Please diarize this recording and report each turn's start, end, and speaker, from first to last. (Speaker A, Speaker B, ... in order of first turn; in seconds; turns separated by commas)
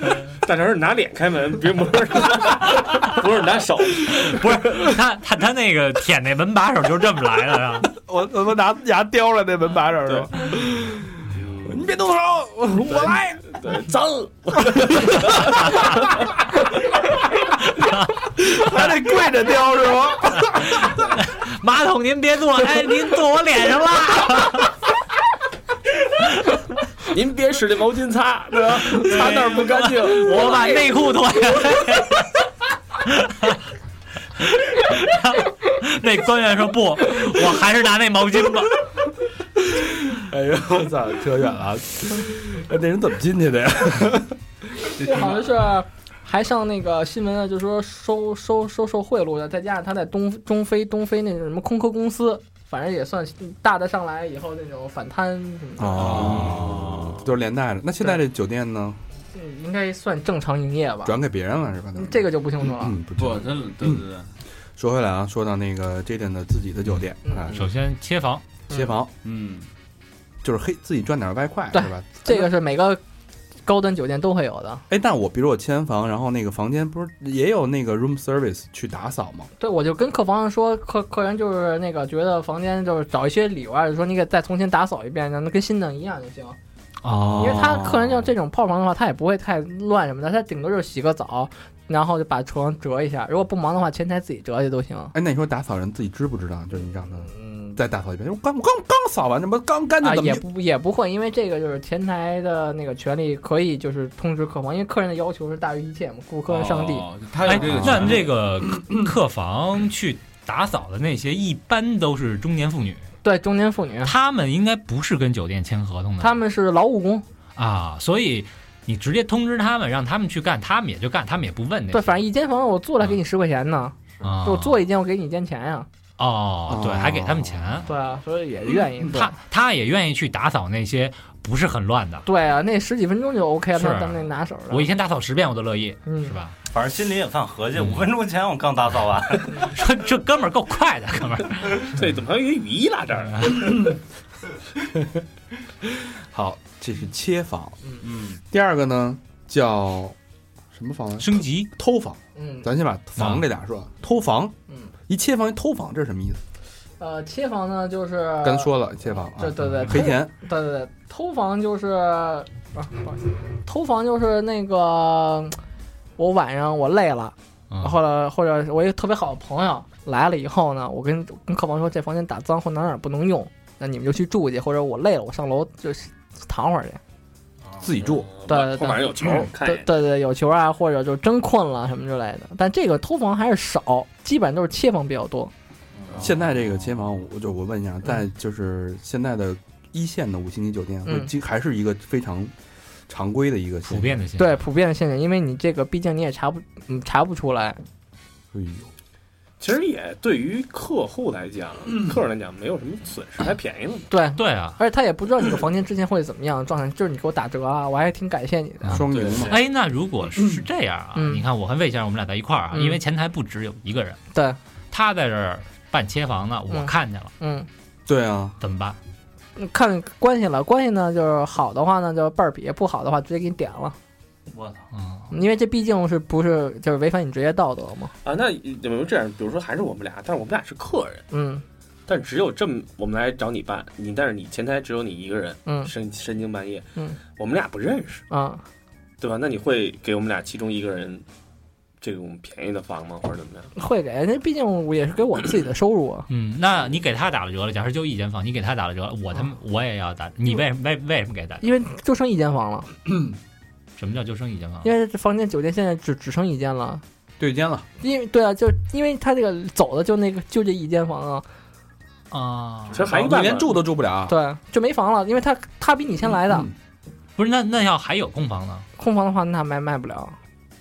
Speaker A: 0.3-4.9, Speaker B: 4.1-7.9, Speaker C: 7.8-13.6, Speaker A: 10.0-10.3, Speaker A: 11.3-11.9, Speaker A: 13.0-16.2, Speaker C: 18.3-20.9, Speaker B: 20.4-24.8, Speaker A: 27.1-30.9, Speaker B: 28.9-32.4, Speaker B: 33.0-33.6, Speaker B: 34.4-38.9, Speaker C: 39.7-44.4, Speaker D: 45.0-45.7, Speaker E: 45.0-56.5, Speaker C: 55.8-59.0, Speaker D: 56.0-57.2, Speaker E: 59.3-61.1, Speaker C: 61.0-64.1, Speaker E: 62.0-62.9, Speaker D: 63.2-64.3, Speaker C: 64.8-67.6, Speaker B: 67.5-68.4, Speaker C: 68.7-69.1, Speaker D: 69.2-69.7, Speaker C: 70.4-72.5, Speaker E: 71.7-73.0, Speaker E: 73.7-74.8, Speaker C: 74.9-79.5, Speaker E: 79.6-86.6, Speaker B: 87.0-87.8, Speaker C: 87.1-88.3, Speaker E: 87.4-95.1, Speaker C: 95.1-100.4, Speaker E: 97.2-97.8, Speaker E: 100.0-107.1, Speaker D: 106.5-108.3, Speaker B: 107.4-113.1, Speaker C: 107.5-108.2, Speaker E: 113.2-114.1, Speaker B: 114.0-116.4, Speaker E: 116.2-117.2, Speaker B: 117.5-122.2, Speaker E: 121.9-125.9, Speaker B: 124.2-124.8, Speaker B: 126.2-127.9, Speaker C: 126.7-127.8, Speaker E: 127.9-129.3, Speaker B: 129.1-132.2, Speaker E: 132.2-134.9, Speaker B: 133.8-136.6, Speaker E: 136.1-136.3, Speaker F: 136.7-139.8, Speaker B: 137.8-138.0, Speaker B: 139.6-142.0, Speaker A: 141.9-143.9, Speaker C: 144.9-145.2, Speaker C: 145.8-147.8, Speaker C: 148.5-150.2, Speaker C: 150.7-154.5, Speaker B: 151.2-151.7, Speaker E: 152.4-152.7, Speaker B: 153.2-153.4, Speaker C: 155.1-156.4, Speaker E: 157.0-165.6, Speaker C: 158.4-160.3, Speaker E: 166.2-177.0, Speaker F: 177.7-177.9, Speaker C: 177.8-178.3, Speaker A: 178.0-179.9, Speaker E: 178.5-185.5, Speaker F: 186.0-186.4, Speaker C: 186.2-192.5, Speaker E: 191.1-191.3, Speaker C: 193.1-194.2, Speaker B: 193.9-194.6, Speaker E: 194.4-197.8, Speaker C: 198.5-198.9, Speaker A: 199.6-204.1, Speaker E: 204.1-209.0, Speaker B: 204.4-204.8, Speaker C: 208.8-209.6, Speaker B: 208.9-214.2, Speaker A: 209.1-209.5, Speaker C: 210.3-210.6, Speaker E: 211.1-211.4, Speaker E: 212.7-213.0, Speaker B: 214.9-217.3, Speaker E: 216.7-217.7, Speaker C: 218.1-218.6, Speaker B: 218.6-219.0, Speaker E: 219.6-224.0, Speaker F: 224.5-224.9, Speaker B: 224.9-225.3, Speaker E: 225.3-228.1, Speaker A: 228.2-231.2, Speaker E: 231.3-231.6, Speaker A: 232.1-238.2, Speaker E: 235.7-235.9, Speaker E: 238.3-238.6, Speaker A: 239.2-241.2, Speaker A: 242.0-243.7, Speaker E: 243.8-246.3, Speaker B: 246.3-251.7, Speaker E: 251.6-252.9, Speaker C: 253.1-253.3, Speaker B: 254.0-254.9, Speaker E: 254.8-257.0, Speaker C: 257.4-257.9, Speaker E: 258.0-261.4, Speaker B: 262.3-263.1, Speaker A: 262.9-263.8, Speaker C: 263.0-264.4, Speaker E: 264.3-266.7, Speaker C: 266.4-266.7, Speaker B: 267.4-268.9, Speaker E: 269.0-270.4